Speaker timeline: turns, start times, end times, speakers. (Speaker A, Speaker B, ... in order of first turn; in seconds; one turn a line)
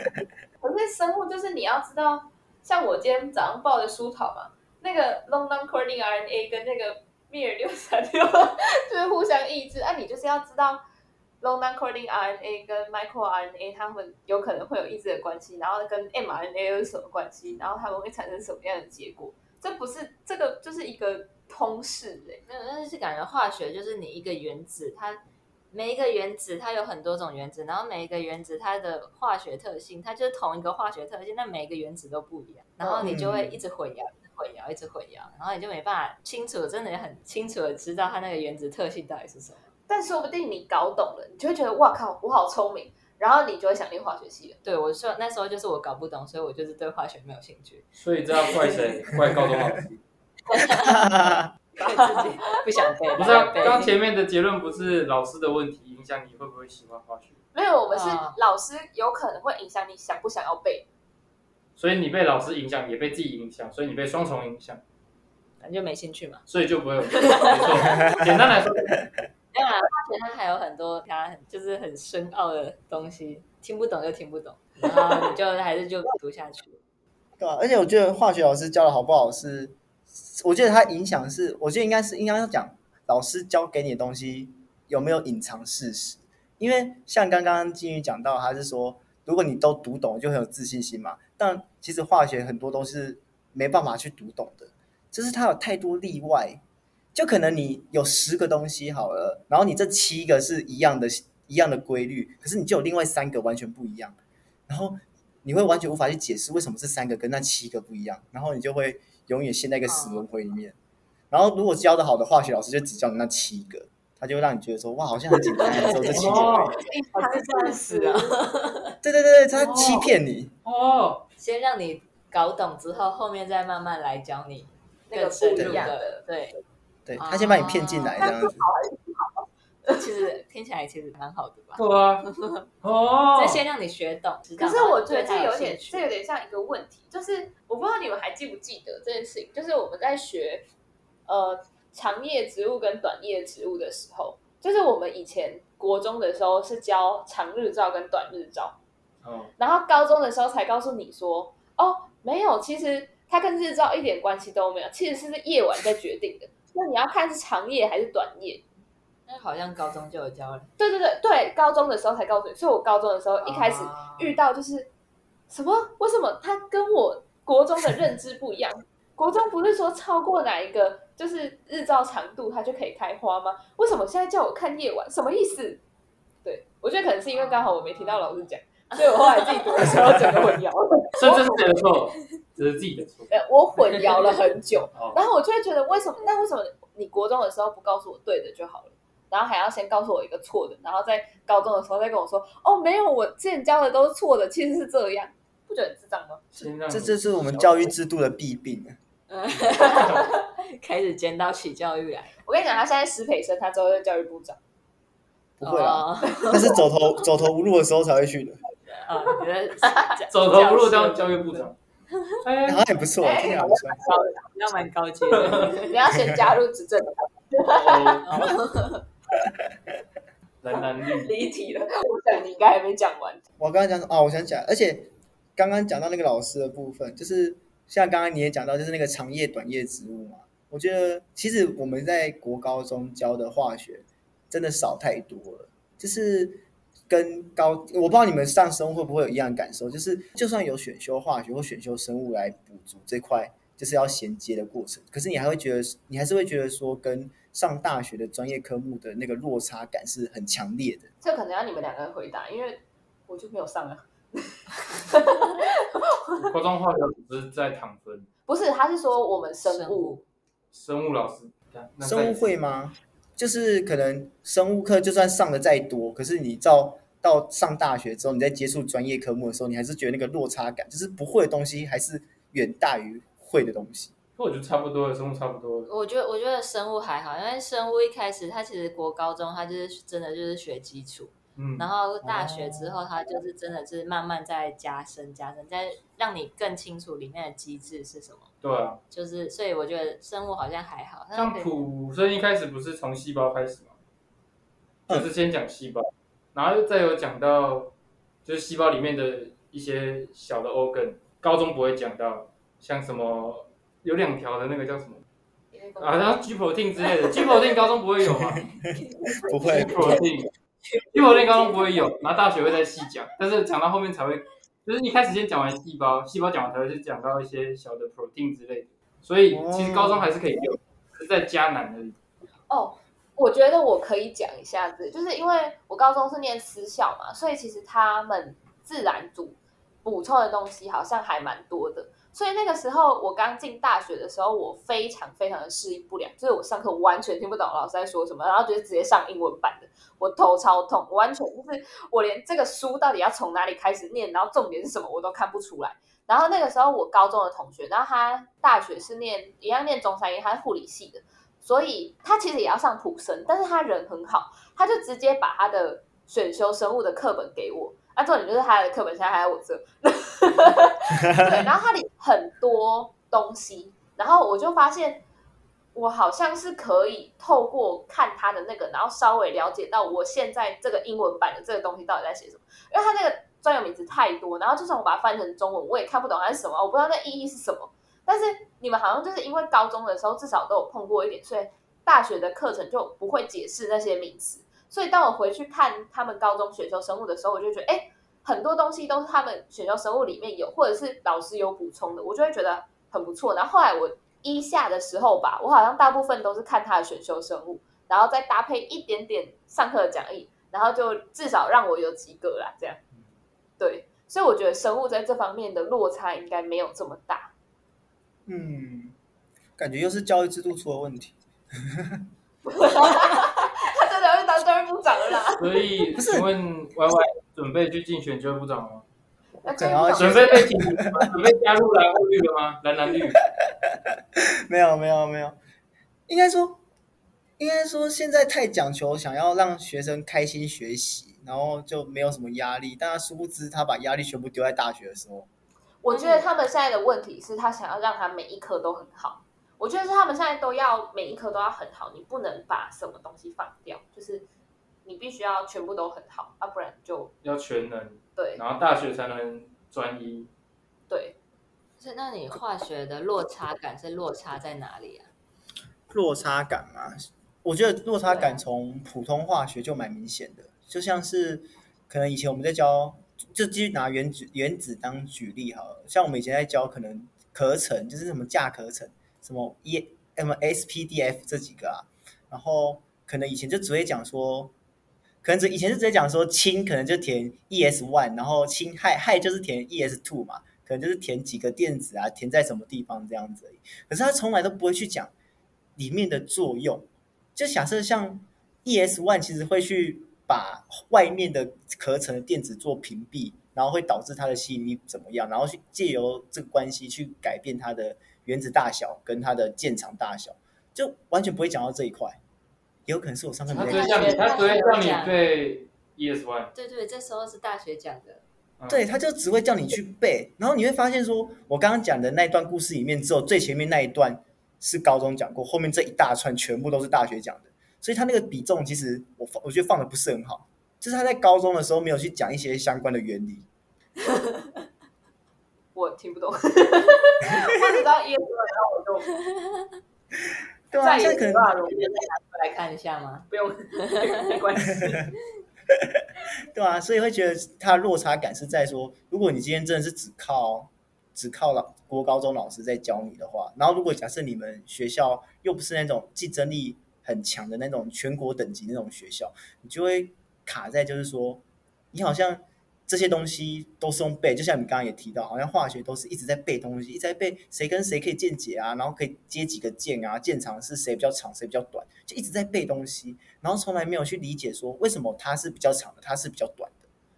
Speaker A: 0.6-10.8
Speaker A: 11.4-22.4
Speaker B: 22.5-25.2
Speaker B: 25.7-39.7
Speaker C: 33.0-33.6
Speaker A: 39.9-44.6
Speaker B: 44.6-47.9
Speaker D: 48.0-50.0
Speaker B: 48.4-48.9
Speaker B: 50.5-51.0
Speaker C: 50.7-51.5
Speaker B: 51.8-53.9
Speaker A: 51.8-52.6
Speaker D: 53.1-57.4
Speaker A: 57.5-60.9
Speaker B: 57.9-58.4
Speaker D: 61.8-64.8
Speaker B: 65.6-66.4
Speaker D: 66.5-69.0
Speaker B: 67.2-68.1
Speaker B: 69.5-76.8
Speaker C: 77.4-96.6
Speaker C: 97.1-104.2
Speaker C: 104.7-110.7
Speaker B: 109.9-110.2
Speaker C: 111.3-116.7
Speaker B: 115.6-116.3
Speaker D: 116.1-116.8
Speaker A: 116.8-118.3
Speaker B: 117.1-118.9
Speaker C: 119.0-120.5
Speaker D: 119.5-120.1
Speaker D: 120.6-121.2
Speaker B: 121.4-126.5
Speaker A: 125.1-126.2
Speaker C: 125.6-125.8
Speaker C: 127.0-128.6
Speaker B: 127.2-128.2
Speaker A: 128.2-130.0
Speaker B: 129.8-132.7
Speaker D: 131.8-132.2
Speaker D: 132.8-133.6
Speaker B: 133.3-136.1
Speaker A: 134.6-140.7
Speaker A: 141.3-148.8
Speaker D: 149.2-149.5
Speaker A: 149.6-158.6
Speaker B: 159.3-160.7
Speaker A: 160.8-164.9
Speaker B: 163.4-164.3
Speaker A: 165.5-175.8
Speaker A: 176.4-181.6
Speaker B: 177.3-178.3
Speaker B: 178.9-179.7
Speaker D: 181.2-183.3
Speaker A: 183.3-196.4
Speaker D: 196.5-197.9
Speaker C: 196.9-199.0
Speaker B: 199.3-202.3
Speaker A: 202.4-204.6
Speaker C: 205.6-208.6
Speaker B: 205.6-206.8
Speaker A: 206.4-206.7
Speaker B: 209.0-211.7
Speaker A: 209.8-210.1
Speaker D: 210.3-211.8
Speaker D: 212.4-212.9
Speaker C: 212.6-214.0
Speaker A: 213.2-214.2
Speaker B: 213.4-215.9
Speaker D: 215.3-215.7
Speaker A: 215.8-218.2
Speaker D: 217.6-218.3
Speaker B: 218.2-219.0
Speaker D: 220.6-221.3
Speaker A: 221.0-223.4
Speaker C: 223.6-251.1
Speaker A: 251.2-256.5
Speaker D: 256.4-258.3
Speaker A: 258.5-260.2
Speaker B: 259.6-260.2
Speaker D: 260.7-262.4
Speaker C: 262.0-274.1
Speaker D: 274.4-275.9
Speaker B: 275.9-288.5
Speaker D: 281.6-281.8
Speaker C: 282.2-283.1
Speaker D: 288.6-289.0
Speaker B: 289.1-291.7
Speaker D: 291.3-293.9
Speaker D: 295.1-297.9
Speaker D: 298.4-305.2
Speaker D: 306.0-308.7
Speaker C: 308.4-310.2
Speaker B: 309.1-310.2
Speaker D: 309.5-310.5
Speaker D: 311.1-322.1
Speaker C: 319.5-320.3
Speaker A: 322.7-365.2
Speaker A: 365.9-403.0
Speaker A: 403.8-407.5
Speaker C: 408.4-409.1
Speaker C: 409.8-412.2
Speaker A: 412.6-415.8
Speaker D: 415.6-419.0
Speaker C: 416.1-416.5
Speaker A: 419.6-420.7
Speaker C: 419.8-421.3
Speaker D: 420.2-423.4
Speaker C: 423.6-425.6
Speaker C: 426.3-426.8
Speaker C: 427.6-435.5
Speaker A: 436.0-444.4
Speaker B: 436.1-436.5
Speaker A: 445.0-447.3
Speaker D: 447.4-450.5
Speaker A: 448.4-448.6
Speaker A: 451.1-451.4
Speaker B: 452.0-455.3
Speaker C: 456.1-474.7
Speaker C: 475.4-485.3
Speaker C: 485.9-502.4
Speaker C: 503.1-504.4
Speaker D: 503.7-506.7
Speaker B: 503.8-505.4
Speaker B: 506.7-508.4
Speaker C: 508.9-523.6
Speaker B: 524.3-524.7
Speaker A: 525.9-529.3
Speaker B: 529.4-529.8
Speaker C: 530.9-531.7
Speaker A: 531.0-532.2
Speaker B: 531.9-533.5
Speaker A: 533.5-535.3
Speaker B: 534.0-534.5
Speaker C: 535.9-567.0